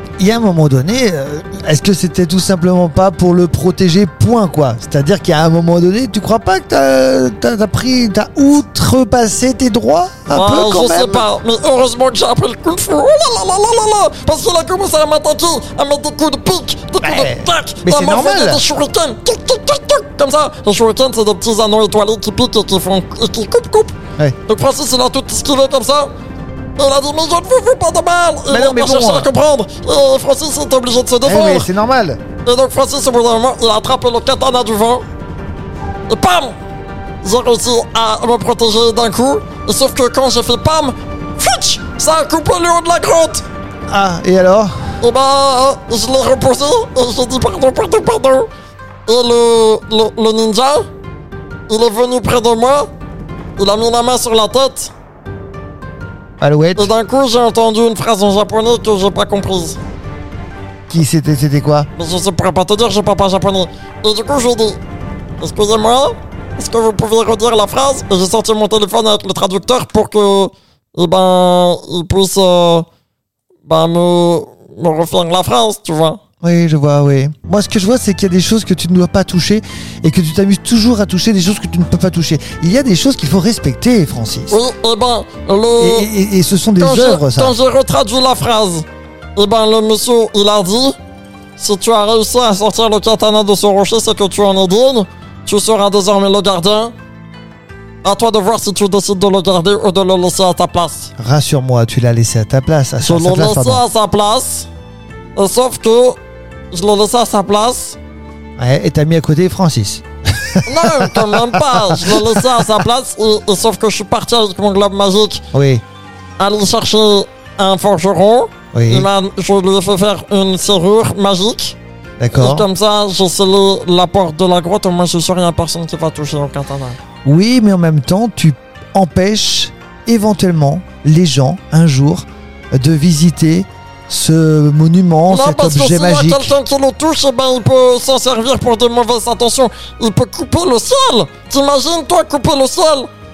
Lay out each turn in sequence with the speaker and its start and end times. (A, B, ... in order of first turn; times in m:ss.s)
0:00.2-0:11.2 A
0:10.3-0:26.1 B
0:17.0-0:18.6 A
0:26.8-0:31.7 B
0:28.5-0:29.3 A
0:31.2-0:32.2 A
0:32.4-0:35.0 B
0:36.1-0:36.5 B
0:37.2-0:43.4 B
0:43.9-0:44.7 A
0:45.0-0:48.5 B
0:49.1-0:50.9 B
0:51.7-0:52.9 B
0:53.6-0:54.9 B
0:56.4-0:56.9 A
0:56.8-0:59.8 B
1:00.9-1:01.9 A
1:02.0-1:04.8 B
1:05.4-1:12.8 B
1:13.6-1:16.2 B
1:16.4-1:24.6 A
1:24.5-1:26.1 B
1:25.8-1:27.6 A
1:26.8-1:31.0 B
1:31.6-1:36.9 B
1:38.0-1:41.1 B
1:41.2-1:43.8 A
1:43.0-1:44.7 B
1:45.4-1:46.2 B
1:46.7-1:48.0 B
1:48.6-1:52.6 A
1:50.6-1:55.4 B
1:55.5-1:55.8 A
1:56.4-2:01.8 B
1:58.7-1:59.1 A
2:02.2-2:02.7 A
2:02.3-2:07.0 B
2:07.2-2:16.5 A
2:15.3-2:23.1 B